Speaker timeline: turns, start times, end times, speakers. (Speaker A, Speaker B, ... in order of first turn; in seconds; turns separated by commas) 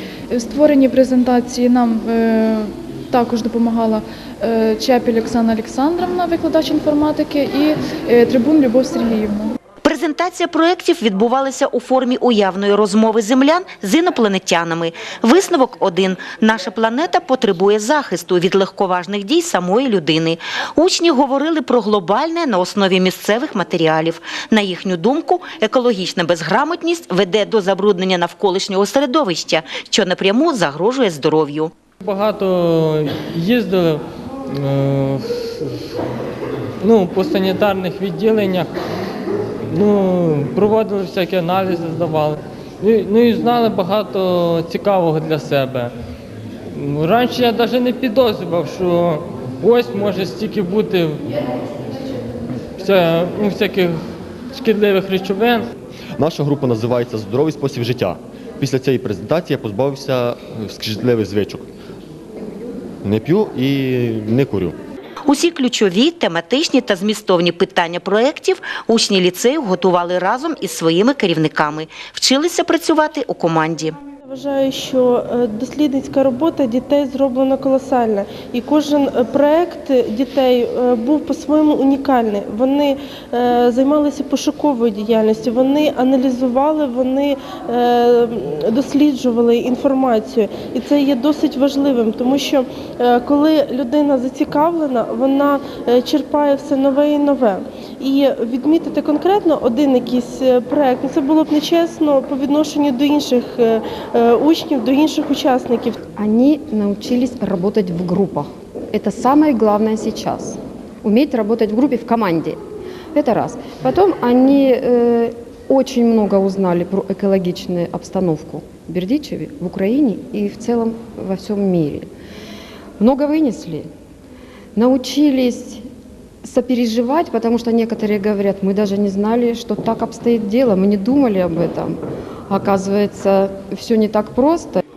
Speaker A: 0.3-9.6, Speaker B: 9.8-31.7, Speaker C: 32.0-35.9, Speaker C: 36.8-38.8, Speaker C: 39.7-45.9, Speaker C: 46.7-51.3, Speaker C: 52.8-55.7, Speaker D: 56.2-61.7, Speaker D: 63.0-64.8, Speaker B: 65.2-74.0, Speaker E: 74.3-106.0, Speaker F: 106.2-112.6, Speaker F: 113.1-122.1, Speaker F: 123.0-123.9, Speaker F: 124.8-125.8, Speaker F: 126.4-134.8